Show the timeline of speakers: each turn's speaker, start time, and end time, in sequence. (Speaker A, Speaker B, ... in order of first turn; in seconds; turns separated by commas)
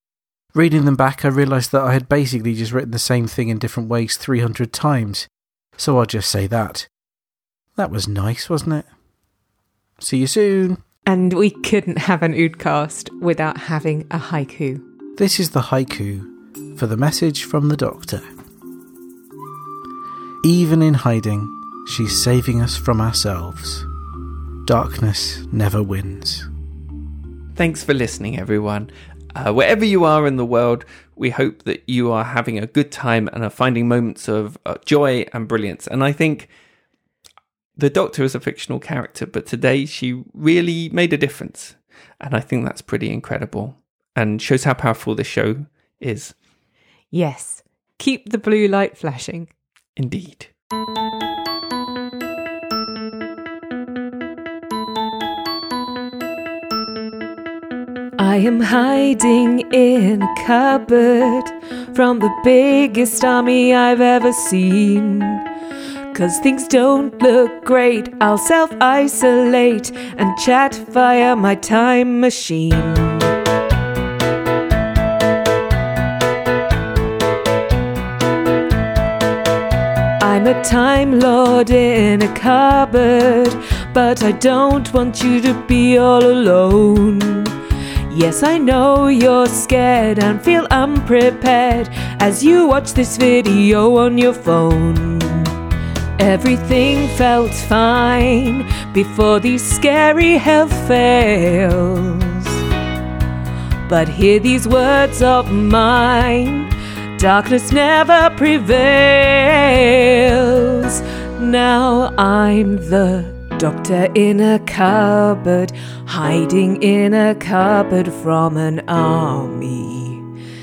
Speaker A: 0.5-5.3, Speaker A: 5.8-6.9, Speaker A: 7.8-8.9, Speaker A: 10.0-10.8, Speaker B: 11.1-14.8, Speaker A: 15.2-18.2, Speaker A: 20.4-23.9, Speaker A: 24.7-26.5, Speaker C: 27.6-36.5, Speaker C: 37.8-46.3, Speaker B: 47.1-49.5, Speaker C: 50.0-50.5, Speaker B: 58.2-65.4, Speaker B: 66.1-73.4, Speaker B: 80.2-87.5, Speaker B: 88.1-95.6, Speaker B: 96.2-102.6, Speaker B: 103.9-120.2